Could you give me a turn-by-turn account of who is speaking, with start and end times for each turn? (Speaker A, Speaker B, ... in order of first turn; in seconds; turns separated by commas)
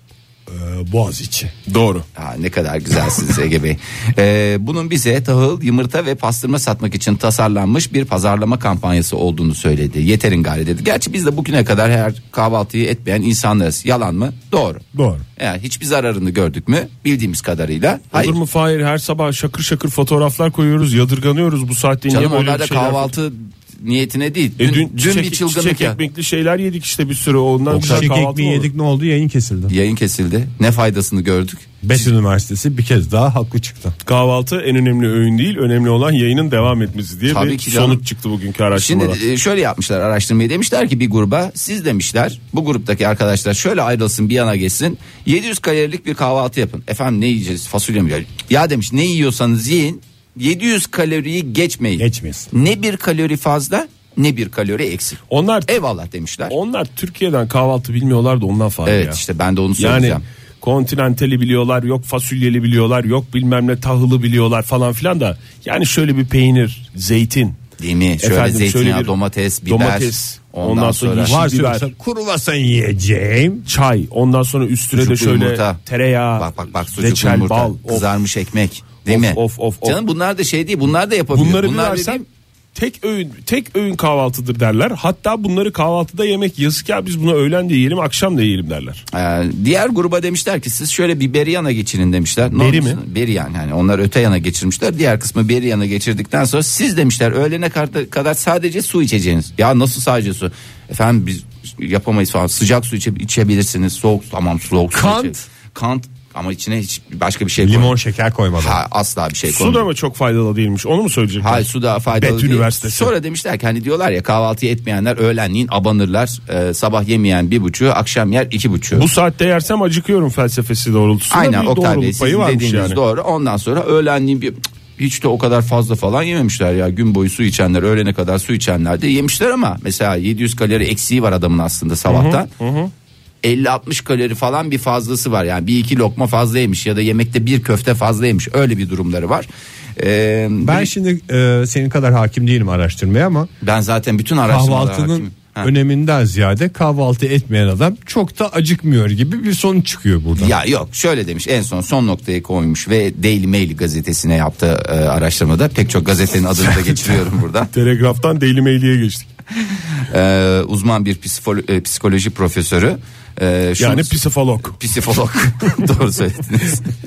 Speaker A: 0.5-1.5, Speaker B: 1.7-2.0, Speaker C: 2.2-14.8, Speaker A: 14.9-15.2, Speaker C: 15.4-18.4, Speaker B: 18.1-23.1, Speaker C: 22.1-26.0, Speaker B: 24.6-28.7, Speaker A: 27.7-29.7, Speaker C: 29.7-32.1, Speaker A: 31.8-34.0, Speaker B: 34.0-39.2, Speaker C: 37.3-38.0, Speaker C: 38.7-56.5, Speaker A: 52.0-52.5, Speaker B: 55.3-55.8, Speaker B: 56.5-59.2, Speaker C: 58.9-60.2, Speaker B: 59.8-67.6, Speaker C: 67.8-71.4, Speaker B: 68.2-69.1, Speaker B: 69.7-71.9, Speaker A: 71.2-73.7, Speaker B: 73.7-78.1, Speaker C: 74.9-75.8, Speaker C: 76.4-82.2, Speaker B: 79.0-80.0, Speaker B: 81.3-82.2, Speaker B: 82.8-89.0, Speaker C: 89.1-108.0, Speaker B: 92.5-93.0, Speaker A: 104.9-105.5, Speaker A: 107.6-108.8, Speaker C: 108.6-109.9, Speaker B: 109.5-111.7, Speaker C: 111.4-119.1, Speaker B: 112.2-113.1, Speaker A: 112.4-112.7, Speaker B: 118.9-123.0, Speaker C: 121.3-132.5, Speaker B: 132.1-132.9, Speaker C: 133.4-140.9, Speaker A: 140.6-143.5, Speaker C: 143.6-145.7, Speaker A: 144.4-150.5, Speaker C: 150.4-157.7, Speaker B: 157.7-159.3, Speaker C: 160.1-164.2, Speaker B: 163.8-164.8, Speaker C: 164.7-166.9